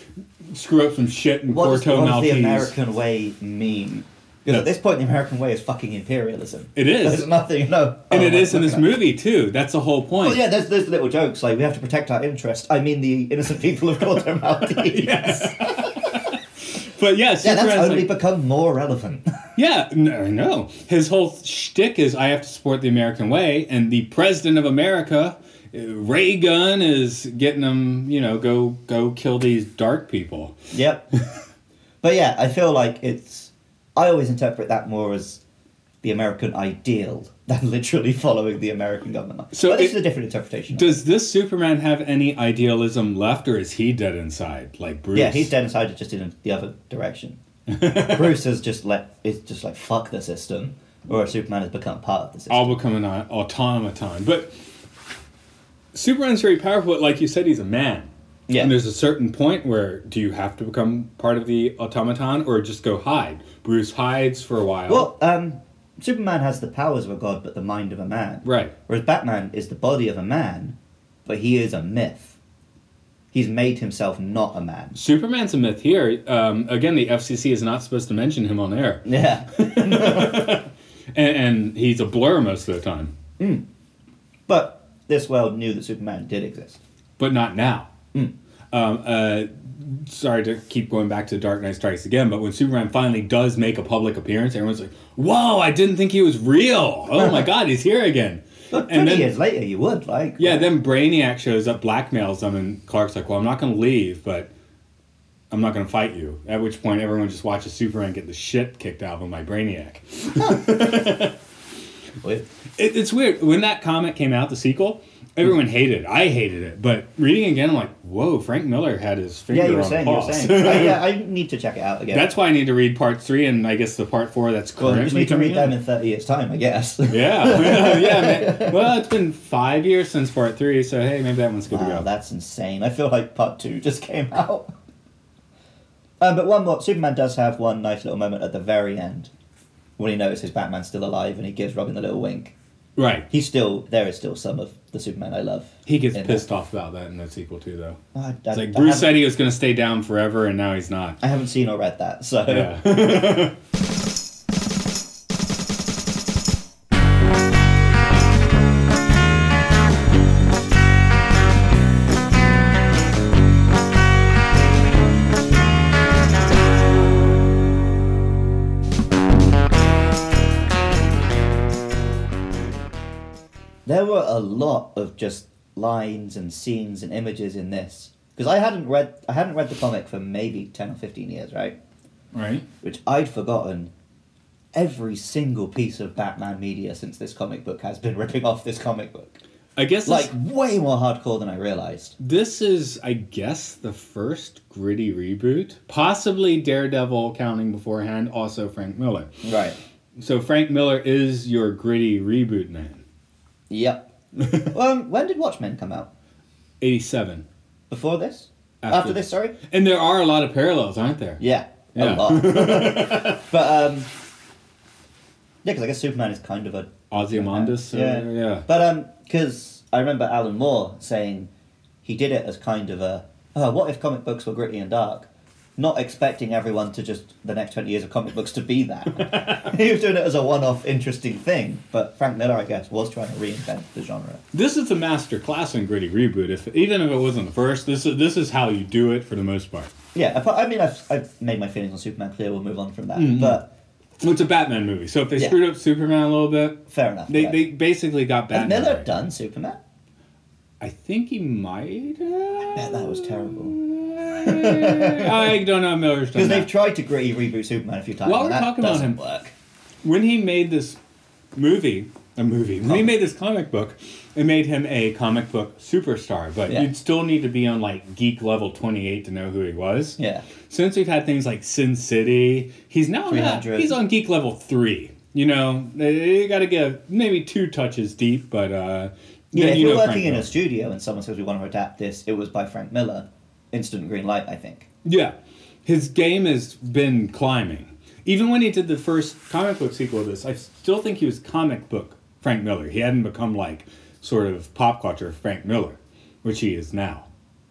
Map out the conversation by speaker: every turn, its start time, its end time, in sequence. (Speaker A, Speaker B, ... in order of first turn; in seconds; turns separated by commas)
Speaker A: 0.5-2.7, Speaker B: 1.5-9.0, Speaker A: 6.8-7.3, Speaker A: 8.1-10.4, Speaker B: 10.2-15.9, Speaker A: 14.7-18.1, Speaker B: 17.4-19.3, Speaker A: 19.6-30.6, Speaker B: 30.7-31.0, Speaker B: 32.0-35.4, Speaker B: 36.0-40.9, Speaker A: 39.5-40.0, Speaker A: 40.7-45.5, Speaker B: 45.1-52.8, Speaker A: 47.7-48.3, Speaker A: 52.5-54.5, Speaker A: 55.9-65.1, Speaker B: 58.5-58.7, Speaker B: 64.9-72.3, Speaker A: 68.4-68.7, Speaker B: 73.3-75.0, Speaker A: 74.9-83.1, Speaker B: 79.0-80.5, Speaker B: 83.4-83.6, Speaker B: 84.5-86.8, Speaker A: 87.2-87.9, Speaker A: 88.7-99.3, Speaker B: 97.2-97.5, Speaker B: 98.7-100.7, Speaker A: 100.4-104.5, Speaker A: 105.5-111.3, Speaker B: 110.3-110.9, Speaker A: 112.8-121.0, Speaker B: 119.5-122.3, Speaker A: 122.1-125.7, Speaker B: 124.8-128.9, Speaker A: 127.1-132.1, Speaker B: 131.7-134.7, Speaker B: 136.2-139.3, Speaker B: 140.0-142.5, Speaker A: 142.9-143.2, Speaker B: 143.3-146.4, Speaker A: 145.8-148.0, Speaker B: 148.1-149.2, Speaker A: 148.5-151.2, Speaker B: 151.2-152.8, Speaker A: 152.5-153.6, Speaker B: 173.8-181.8, Speaker A: 182.3-182.6, Speaker B: 182.8-183.9, Speaker B: 184.7-189.4, Speaker A: 189.8-190.3, Speaker B: 190.1-192.2, Speaker A: 192.2-199.3, Speaker B: 199.4-199.8, Speaker A: 200.2-203.0, Speaker B: 203.7-206.1, Speaker A: 204.4-204.7, Speaker A: 206.8-207.4, Speaker B: 207.9-209.5, Speaker A: 208.8-211.4, Speaker B: 211.4-214.1, Speaker A: 211.9-213.4, Speaker B: 215.6-221.5, Speaker A: 217.1-218.7, Speaker B: 222.0-234.4, Speaker A: 229.2-229.7, Speaker A: 234.5-239.9, Speaker B: 240.1-243.7, Speaker A: 243.1-243.6, Speaker A: 244.2-249.1, Speaker B: 246.9-247.6, Speaker B: 248.5-249.8, Speaker A: 250.8-256.7, Speaker B: 252.6-253.8, Speaker B: 254.4-255.6, Speaker B: 256.3-259.5, Speaker A: 258.2-259.2, Speaker A: 260.0-261.0, Speaker A: 261.6-280.5, Speaker B: 262.8-263.1, Speaker B: 270.2-270.4, Speaker B: 273.3-274.0, Speaker B: 279.5-284.9, Speaker A: 285.0-285.3, Speaker A: 285.8-297.3